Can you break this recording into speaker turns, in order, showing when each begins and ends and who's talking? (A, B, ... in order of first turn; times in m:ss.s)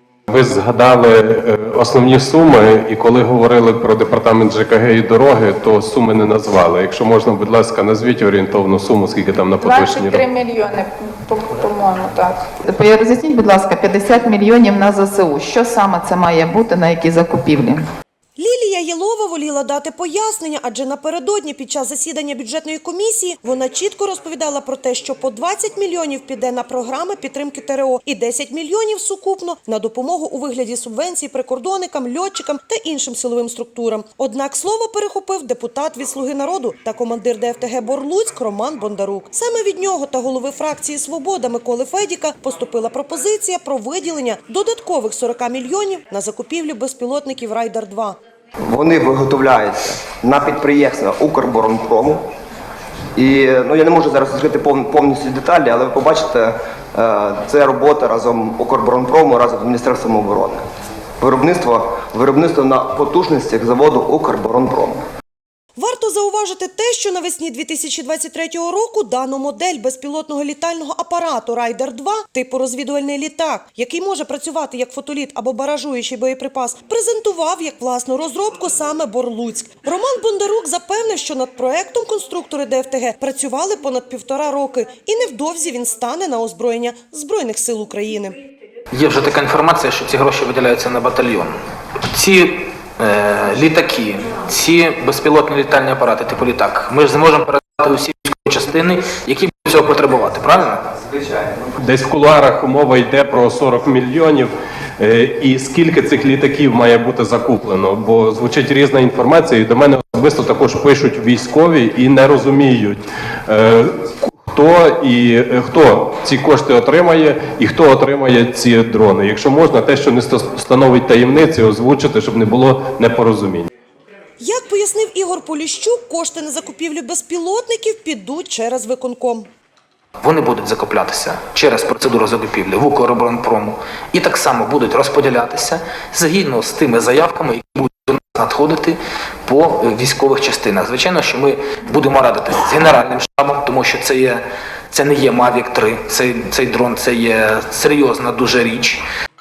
0:00.3-0:10.2 A
0:09.6-0:12.4 B
0:12.6-0:17.9 C
0:18.4-0:48.2 D
0:48.7-0:52.2 E
0:53.2-1:00.6 E
1:01.2-1:05.0 E
1:05.8-1:28.4 D
1:28.9-1:31.5 F
1:32.1-1:40.9 F
1:41.8-2:03.7 A
2:04.4-2:09.5 D
2:10.2-2:29.0 F